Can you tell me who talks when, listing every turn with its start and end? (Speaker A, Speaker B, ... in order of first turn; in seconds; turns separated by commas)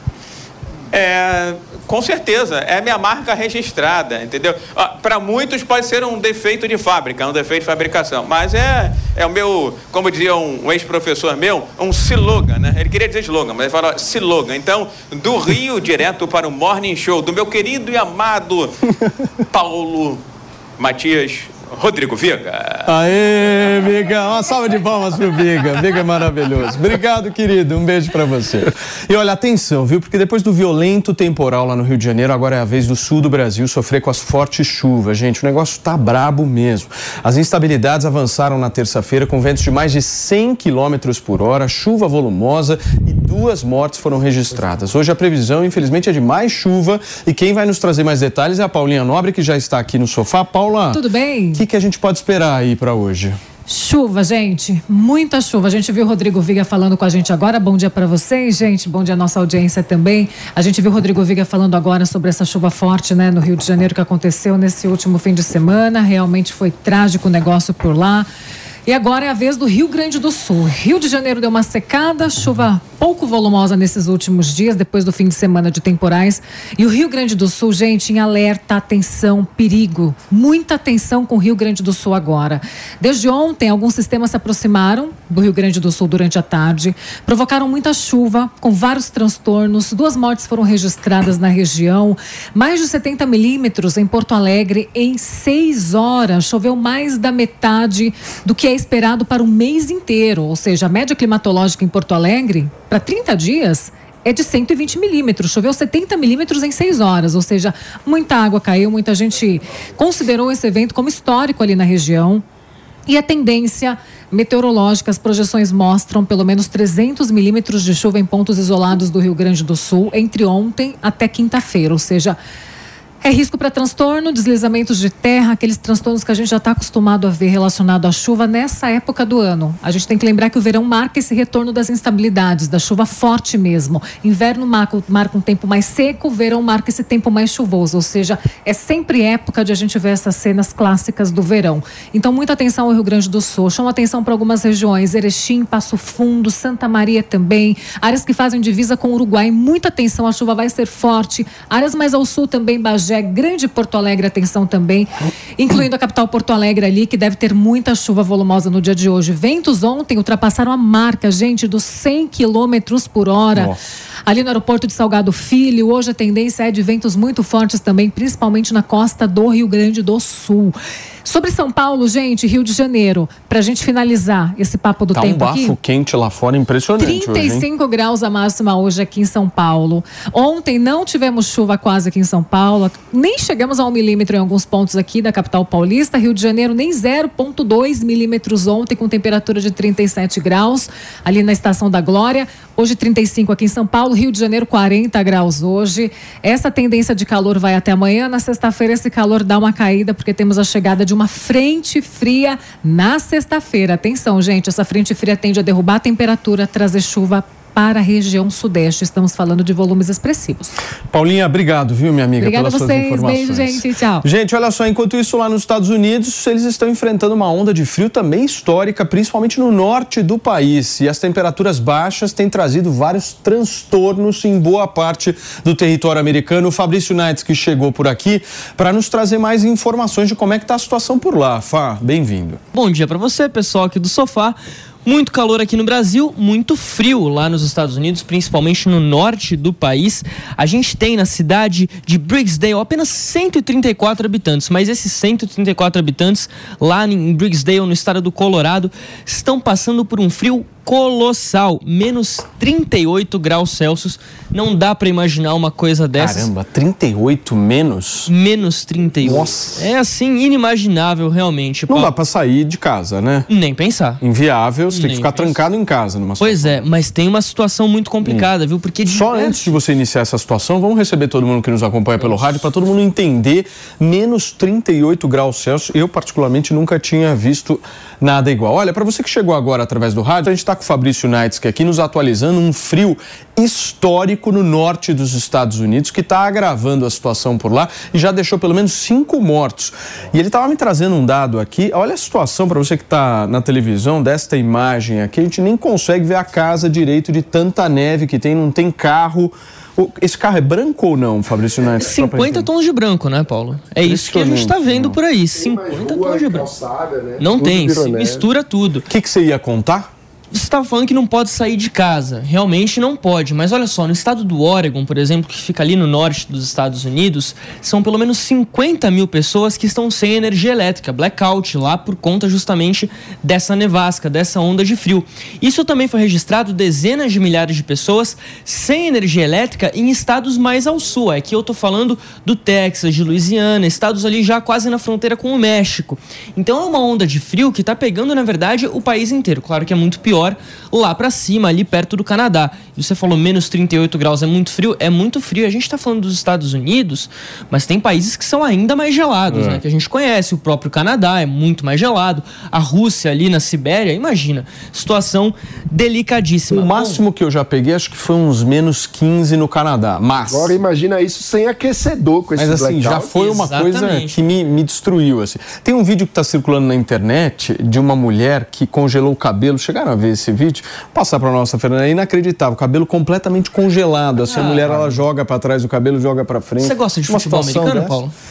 Speaker A: 0.9-18.7, Speaker A: 19.5-20.2, Speaker A: 20.8-22.9, Speaker B: 22.9-53.4, Speaker C: 50.9-51.6, Speaker C: 53.7-68.3, Speaker C: 68.8-112.4, Speaker C: 113.1-122.4, Speaker C: 123.2-163.7, Speaker B: 163.5-163.8, Speaker C: 164.3-175.8, Speaker B: 175.1-177.7, Speaker C: 177.0-210.7, Speaker B: 211.1-232.6, Speaker C: 212.4-214.2, Speaker D: 232.7-256.5, Speaker B: 256.1-258.3, Speaker D: 258.3-262.1, Speaker B: 259.2-259.9, Speaker B: 261.9-263.5, Speaker D: 263.5-264.2, Speaker B: 264.2-266.8, Speaker D: 264.9-265.6, Speaker D: 266.4-269.7, Speaker B: 269.1-302.7, Speaker D: 272.2-272.5, Speaker D: 302.0-306.7, Speaker B: 304.0-305.2, Speaker E: 305.5-308.4, Speaker D: 307.4-309.1, Speaker B: 309.1-310.1, Speaker D: 310.5-357.2, Speaker B: 349.5-349.8, Speaker B: 356.7-360.7, Speaker E: 360.5-363.4, Speaker B: 362.6-378.2, Speaker D: 363.3-364.4, Speaker D: 374.4-375.2, Speaker D: 376.8-378.3